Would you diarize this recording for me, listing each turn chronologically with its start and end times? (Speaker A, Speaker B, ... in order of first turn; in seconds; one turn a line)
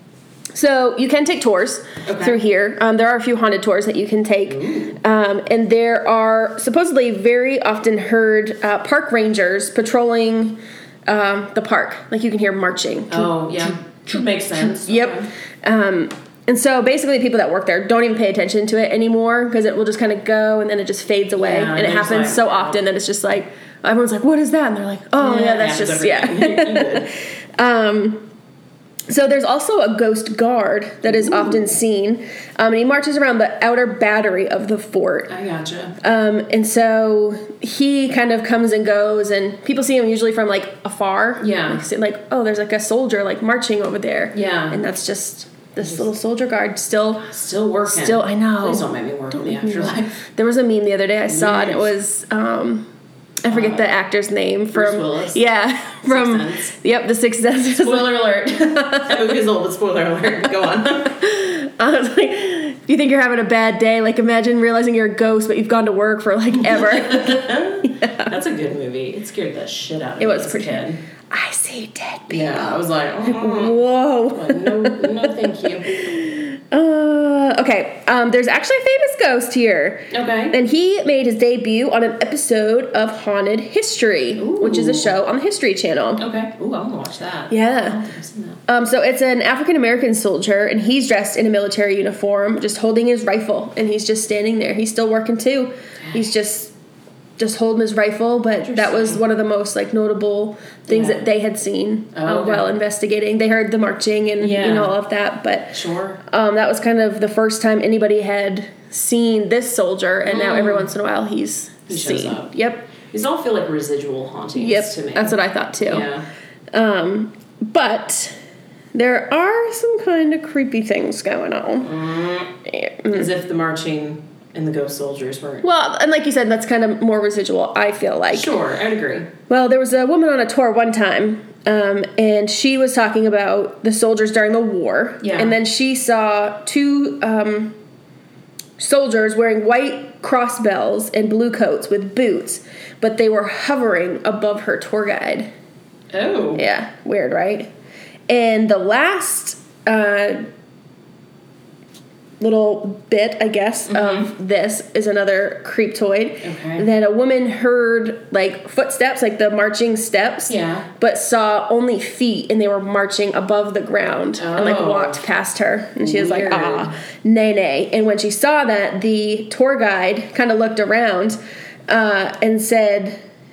Speaker A: 0.5-13.3
Speaker B: 2.0-2.4
Speaker B: 4.5-5.0
Speaker B: 13.1-15.3
Speaker A: 14.6-28.3
Speaker B: 21.4-22.8
Speaker B: 25.2-27.1
Speaker A: 29.1-35.3
Speaker B: 31.1-31.6
Speaker B: 35.3-36.0
Speaker A: 36.0-47.3
Speaker B: 41.4-41.8
Speaker B: 44.3-44.8
Speaker B: 47.2-50.2
Speaker A: 47.9-52.9
Speaker B: 51.3-51.9
Speaker A: 53.4-59.3
Speaker B: 53.5-53.8
Speaker B: 54.7-55.4
Speaker B: 56.1-56.7
Speaker B: 57.7-61.2
Speaker A: 61.2-68.3
Speaker B: 66.6-71.0
Speaker A: 70.2-86.2
Speaker B: 72.3-73.8
Speaker B: 74.3-75.9
Speaker B: 80.1-80.5
Speaker B: 84.3-85.1
Speaker B: 86.2-88.6
Speaker A: 87.5-88.0
Speaker A: 88.7-96.7
Speaker A: 97.4-112.9
Speaker B: 98.6-99.2
Speaker B: 100.9-101.2
Speaker B: 102.1-102.7
Speaker B: 104.4-105.0
Speaker B: 105.7-106.2
Speaker B: 110.3-110.9
Speaker B: 111.9-116.2
Speaker A: 114.6-116.1
Speaker A: 116.7-118.3
Speaker A: 118.9-121.9
Speaker B: 121.8-122.5
Speaker A: 122.7-123.3
Speaker B: 123.1-125.6
Speaker A: 125.6-128.5
Speaker B: 128.3-129.3
Speaker A: 129.5-137.8
Speaker B: 135.2-135.6
Speaker A: 138.8-145.5
Speaker B: 146.1-146.6
Speaker A: 146.5-147.7
Speaker A: 148.3-150.4
Speaker A: 152.4-173.2
Speaker B: 153.9-154.3
Speaker B: 156.4-156.8
Speaker B: 160.5-160.9
Speaker B: 164.4-165.2
Speaker B: 166.0-166.9